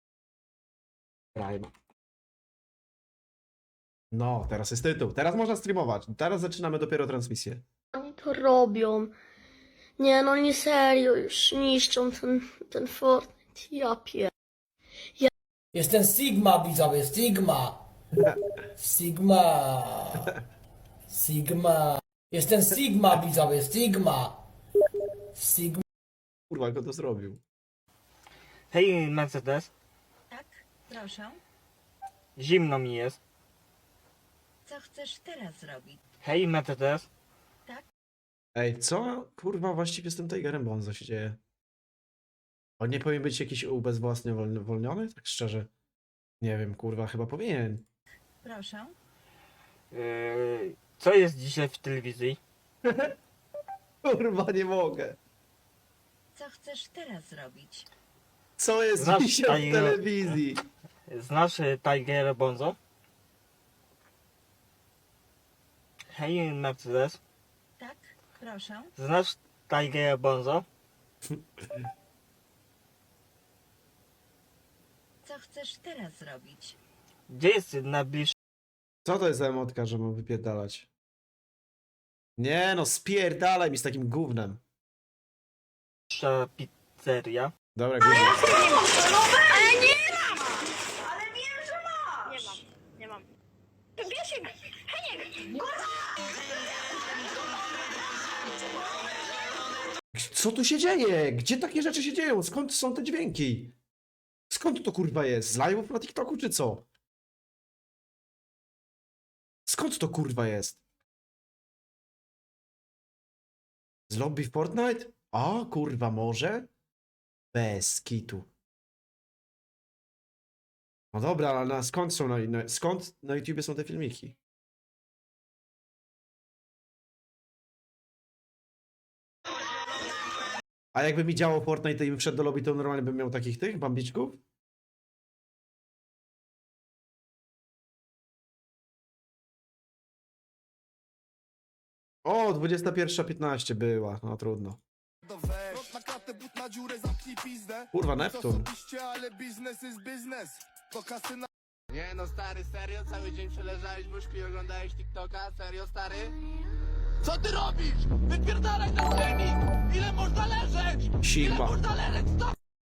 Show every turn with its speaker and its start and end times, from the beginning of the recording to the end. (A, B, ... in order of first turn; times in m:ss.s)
0:01.3-0:01.7 A
0:04.1-0:07.6 A
0:08.0-0:09.1 B
0:10.0-0:14.3 B
0:15.7-0:17.8 C
0:18.8-0:20.3 C
0:21.1-0:24.4 C
0:25.3-0:25.8 C
0:26.5-0:27.4 A
0:28.7-0:29.7 D
0:30.3-0:31.4 E
0:32.4-0:33.2 D
0:34.7-0:36.0 E
0:36.2-0:37.0 D
0:38.6-0:41.4 A
0:42.8-0:45.7 A
0:46.4-0:47.8 A
0:48.4-0:48.9 E
0:49.9-0:52.4 D
0:52.8-0:53.1 A
0:54.0-0:55.2 A
0:56.4-0:57.9 E
0:58.6-1:00.6 A
0:59.0-1:00.0 D
1:01.1-1:02.8 D
1:06.1-1:07.2 D
1:07.8-1:08.9 E
1:09.0-1:10.6 D
1:15.2-1:16.8 E
1:17.3-1:18.3 D
1:19.0-1:20.9 A
1:22.4-1:24.6 A
1:26.1-1:27.5 D
1:27.7-1:28.5 A
1:40.1-1:43.7 A
1:44.5-1:46.8 A
1:49.7-1:50.8 A
1:54.1-1:56.7 A
1:57.5-1:58.5 A
2:01.1-2:04.4 A
2:10.9-2:14.4 A
2:22.2-2:24.8 A
2:25.3-2:31.5 F
2:27.9-2:28.7 A
2:31.9-2:36.3 G
2:37.2-2:42.5 G
2:41.2-2:41.9 A